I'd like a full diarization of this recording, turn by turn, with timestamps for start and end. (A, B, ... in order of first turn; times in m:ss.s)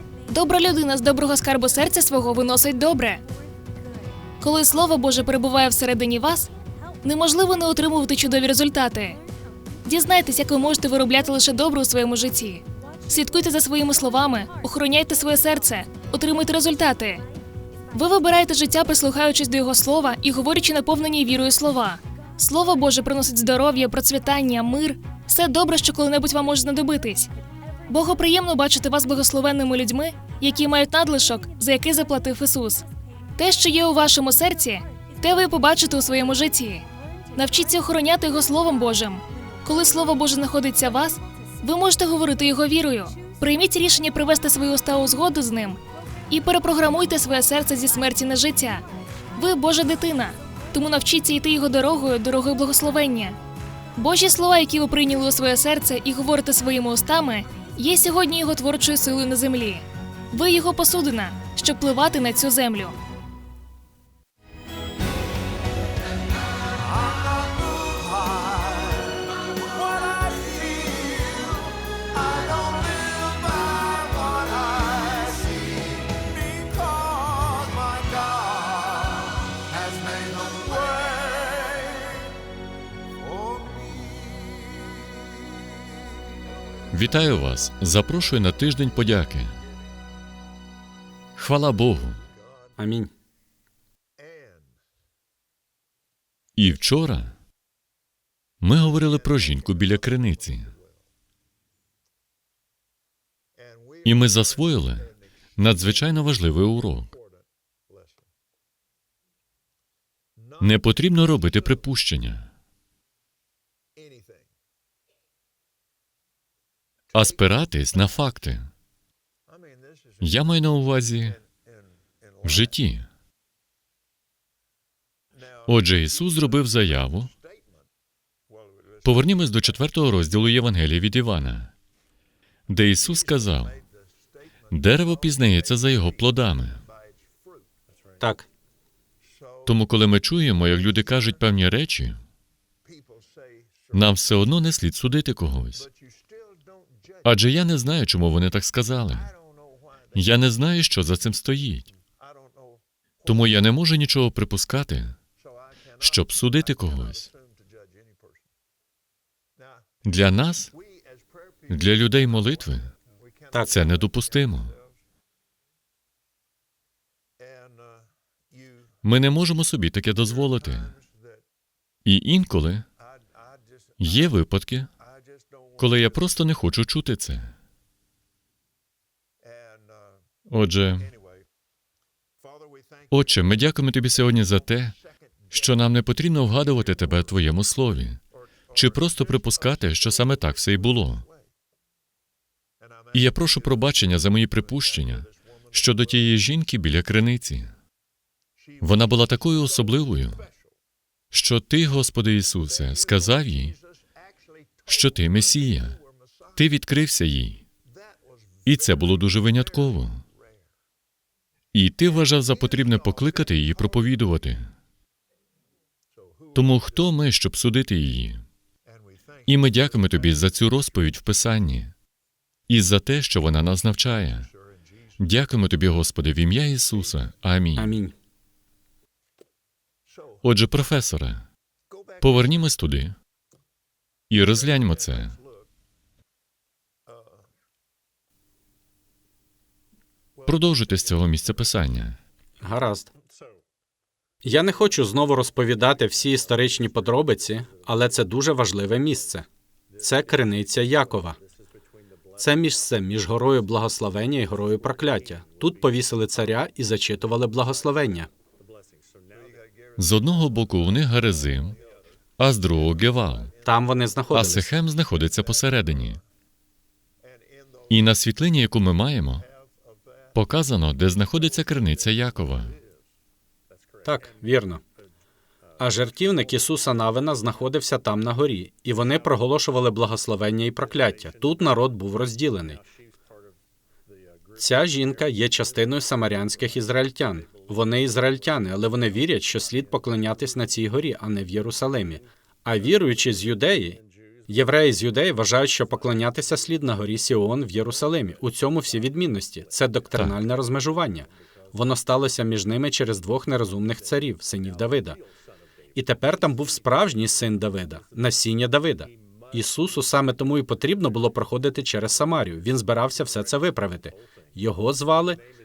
0:00.3-0:03.2 A
0:04.4-0:06.5 A
0:07.0-0:09.2 A
0:09.8-0:17.2 A
0:17.9-0:27.3 A
0:27.9-0:32.8 A
0:33.4-0:53.4 A
0:54.0-1:02.9 A
1:26.9-1:29.6 B
1:31.4-1:32.2 B
1:32.8-1:33.1 C
1:36.6-1:37.4 B
1:38.6-1:40.7 B
1:44.0-1:47.1 B
1:50.6-1:52.5 B
1:57.1-1:58.7 B
2:00.2-2:01.4 B
2:02.4-2:03.1 B
2:05.6-2:07.3 B
2:09.0-2:11.7 B
2:12.7-2:13.8 B
2:14.7-2:16.8 B
2:18.2-2:18.5 C
2:19.6-2:22.2 B
2:23.9-2:25.9 B
2:27.2-2:29.3 B
2:30.1-2:31.9 B
2:33.2-2:35.2 B
2:36.0-2:37.3 B
2:40.0-2:40.7 B
2:41.7-2:42.9 B
2:43.5-2:43.8 C
2:43.7-2:44.8 B
2:49.0-2:51.0 B
2:52.0-2:52.9 B
2:54.0-2:54.9 B
2:55.8-2:57.5 B
3:00.5-3:01.1 B
3:03.1-3:05.0 B
3:05.5-3:08.2 B
3:08.7-3:11.3 B
3:13.1-3:17.7 B
3:18.8-3:20.5 B
3:21.3-3:23.8 B
3:24.9-3:26.0 B
3:26.6-3:27.6 B
3:28.6-3:30.2 B
3:31.7-3:34.7 B
3:36.5-3:38.4 B
3:39.4-3:41.9 B
3:42.7-3:44.5 B
3:45.2-3:47.9 B
3:47.8-3:48.1 C
3:50.4-3:51.5 B
3:52.2-3:53.2 B
3:54.3-3:55.4 B
4:00.4-4:02.2 B
4:02.6-4:03.1 C
4:04.4-4:09.4 C
4:10.0-4:11.4 C
4:12.4-4:18.3 C
4:20.0-4:21.8 B
4:22.4-4:23.5 B
4:23.6-4:24.7 C
4:24.3-4:26.2 B
4:27.9-4:29.5 B
4:30.3-4:32.8 B
4:34.0-4:34.8 C
4:35.8-4:42.8 C
4:44.6-5:05.2 C
5:05.9-5:15.4 C